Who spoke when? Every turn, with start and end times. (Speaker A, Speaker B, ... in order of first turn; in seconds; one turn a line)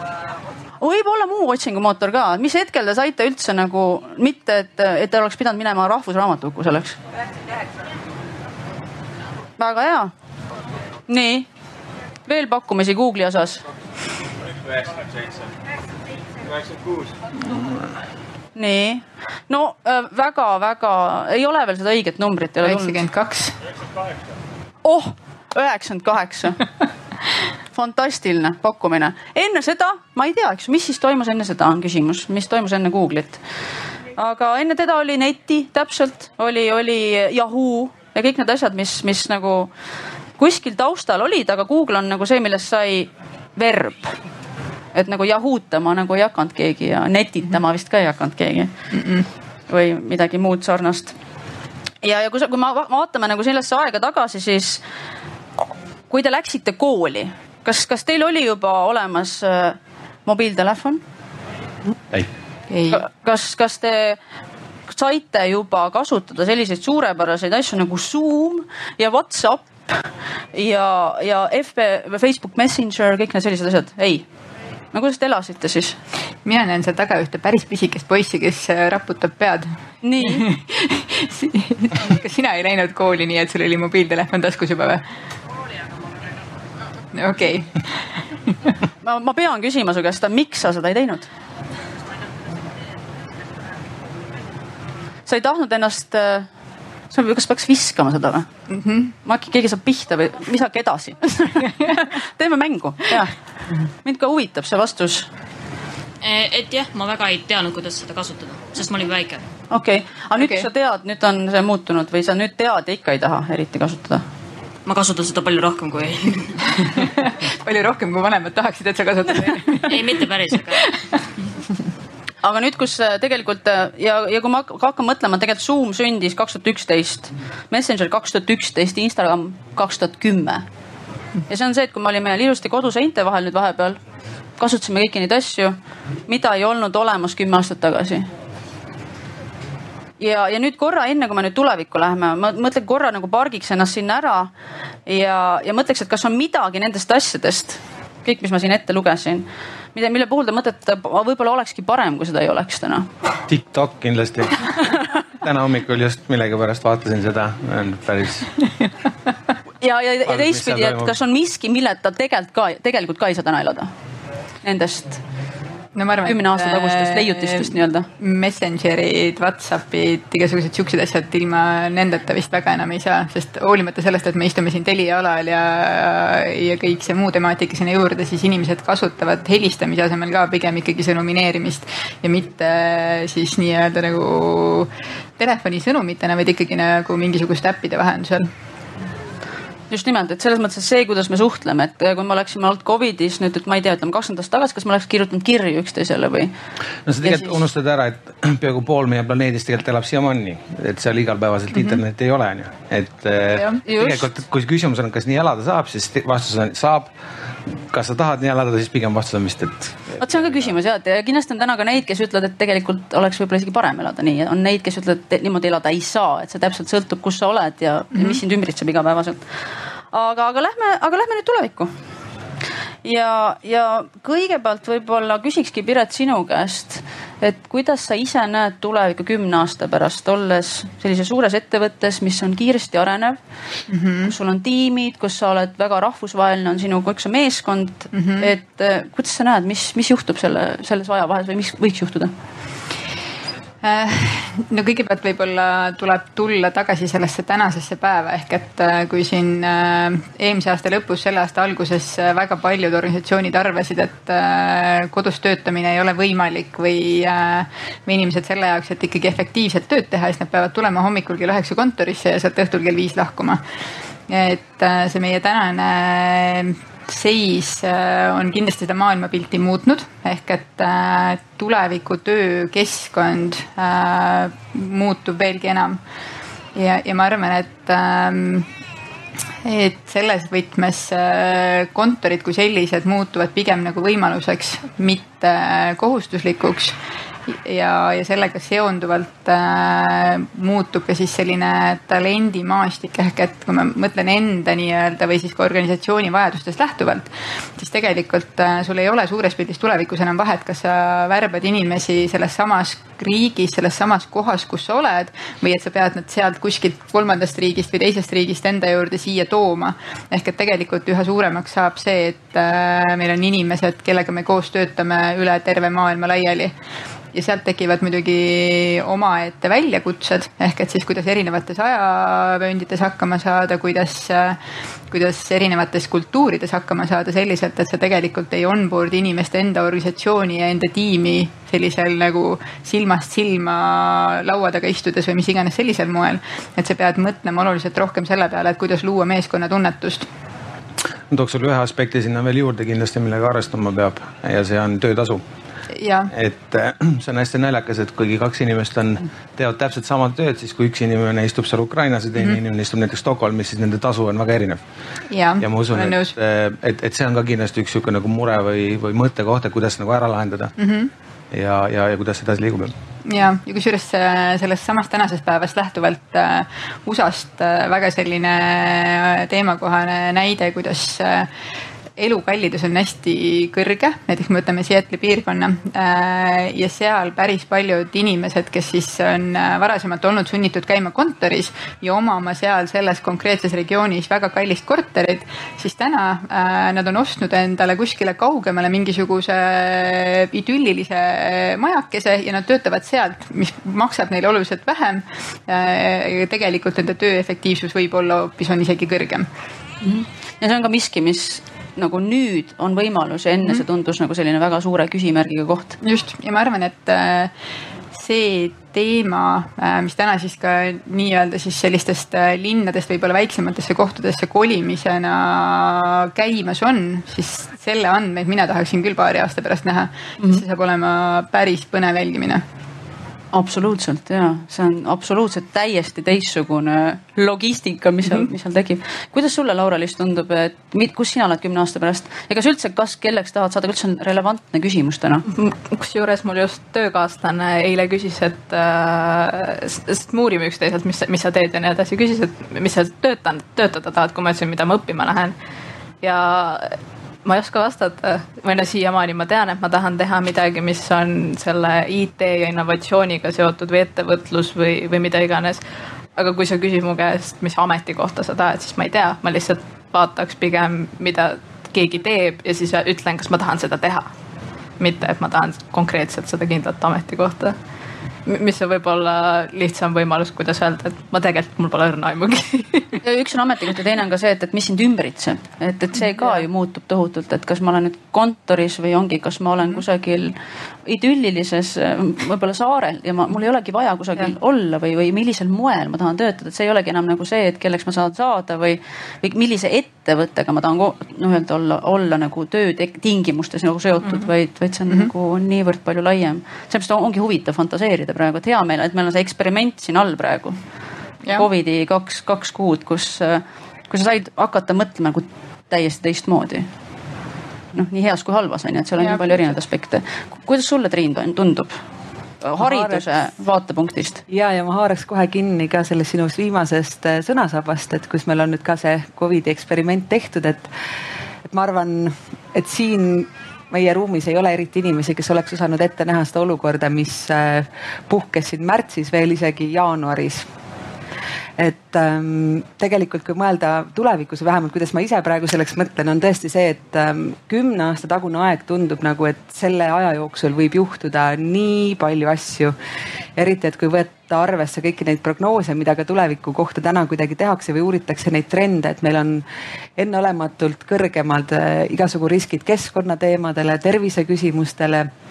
Speaker A: 0.8-7.0
Speaker A: 9.6-10.1
Speaker A: 11.1-11.5
Speaker A: 12.3-13.6
Speaker B: 17.5-17.7
Speaker A: 18.6-23.0
Speaker C: 22.6-23.6
Speaker A: 24.8-26.6
Speaker A: 27.7-33.4
Speaker A: 34.2-39.7
Speaker A: 40.4-44.2
Speaker A: 44.9-48.7
Speaker C: 48.9-49.3
Speaker A: 49.7-51.1
Speaker A: 52.0-54.8
Speaker A: 56.1-61.0
Speaker C: 62.7-63.0
Speaker A: 62.9-64.2
Speaker A: 64.9-74.2
Speaker A: 74.9-76.0
Speaker C: 76.4-79.7
Speaker A: 80.0-80.4
Speaker C: 80.2-85.0
Speaker C: 87.1-88.0
Speaker A: 89.0-91.3
Speaker A: 95.3-96.5
Speaker A: 97.1-98.5
Speaker C: 98.7-99.1
Speaker A: 99.2-103.3
Speaker A: 104.0-105.3
Speaker D: 106.2-109.4
Speaker A: 109.7-114.2
Speaker C: 110.4-110.6
Speaker D: 114.8-116.5
Speaker C: 117.0-120.2
Speaker D: 119.8-120.8
Speaker A: 122.4-130.6
Speaker A: 131.5-134.0
Speaker A: 134.6-138.3
Speaker A: 140.2-144.5
Speaker A: 145.1-153.1
Speaker B: 153.5-158.5
Speaker A: 159.8-163.9
Speaker B: 160.2-161.1
Speaker A: 164.6-165.2
Speaker C: 165.9-188.4
Speaker A: 166.2-168.1
Speaker A: 189.9-196.5
Speaker B: 197.1-207.1
Speaker A: 197.2-197.5
Speaker C: 201.7-202.0
Speaker A: 203.8-204.2
Speaker B: 207.9-210.7
Speaker A: 210.2-219.4
Speaker C: 218.1-218.4
Speaker A: 220.1-221.9
Speaker A: 223.0-233.4
Speaker C: 233.9-234.3
Speaker A: 234.2-242.3
Speaker C: 238.1-238.5
Speaker C: 243.8-263.6
Speaker C: 264.3-276.0
Speaker C: 276.7-278.7
Speaker C: 279.6-286.9
Speaker C: 287.5-316.7
Speaker C: 317.3-324.6
Speaker C: 325.1-340.3
Speaker B: 341.3-345.4
Speaker C: 346.0-346.3
Speaker B: 346.3-354.8
Speaker C: 355.3-356.3
Speaker B: 355.6-360.7
Speaker C: 360.8-361.1
Speaker B: 361.5-362.9
Speaker C: 363.3-371.5
Speaker C: 372.2-399.5
Speaker A: 400.0-405.9
Speaker C: 406.0-407.5
Speaker C: 408.1-422.6
Speaker A: 423.5-435.4
Speaker E: 435.5-445.5
Speaker E: 446.2-455.8
Speaker E: 456.4-464.3
Speaker E: 465.0-467.8
Speaker E: 468.4-473.2
Speaker A: 473.2-480.5
Speaker A: 481.1-500.8
Speaker A: 501.5-506.9
Speaker A: 507.9-512.0
Speaker C: 509.2-509.6
Speaker A: 512.6-514.4
Speaker F: 512.8-513.2
Speaker F: 514.5-520.9
Speaker F: 521.7-530.7
Speaker F: 531.8-542.9
Speaker F: 543.6-549.6
Speaker F: 550.2-555.3